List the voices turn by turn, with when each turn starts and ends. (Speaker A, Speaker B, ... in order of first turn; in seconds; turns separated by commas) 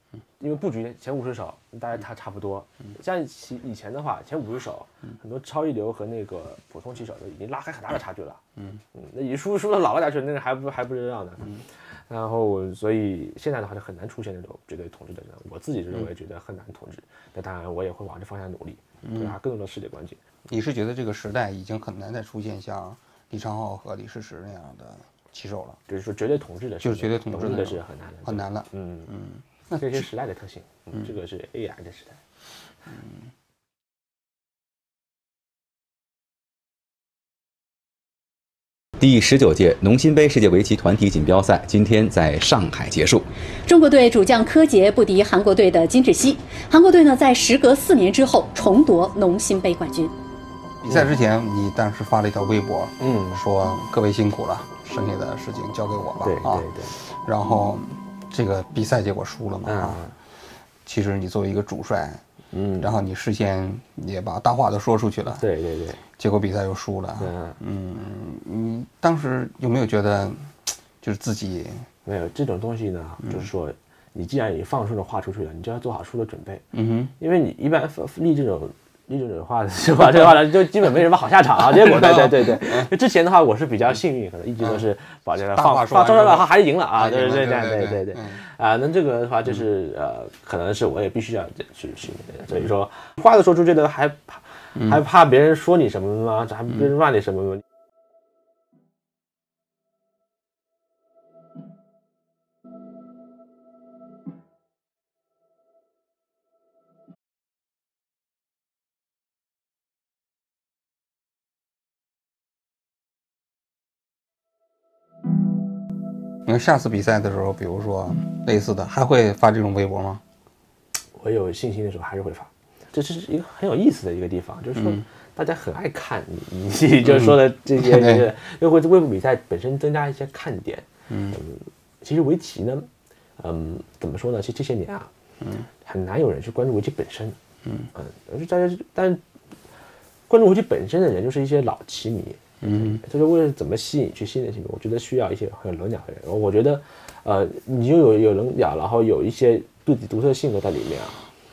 Speaker A: 0.4-8.4, Speaker A: 8.9-20.2, Speaker B: 19.0-19.4, Speaker B: 20.5-25.8, Speaker A: 25.9-29.1, Speaker B: 26.8-30.0, Speaker A: 29.8-32.2, Speaker C: 39.0-43.3, Speaker D: 43.6-50.1, Speaker B: 50.8-60.0, Speaker A: 53.0-53.4, Speaker A: 56.2-57.0, Speaker A: 59.7-60.1, Speaker B: 60.9-62.2, Speaker A: 62.5-63.0, Speaker B: 62.8-65.4, Speaker A: 65.4-66.0, Speaker B: 66.2-71.9, Speaker A: 67.2-67.6, Speaker A: 72.0-76.7, Speaker B: 76.7-77.1, Speaker A: 77.2-97.6, Speaker B: 81.9-82.9, Speaker B: 85.5-88.4, Speaker B: 116.4-120.2, Speaker A: 121.1-135.1, Speaker B: 127.1-128.2, Speaker B: 131.1-131.4, Speaker A: 135.8-137.4, Speaker A: 137.9-139.2, Speaker A: 140.3-151.2, Speaker B: 142.6-143.0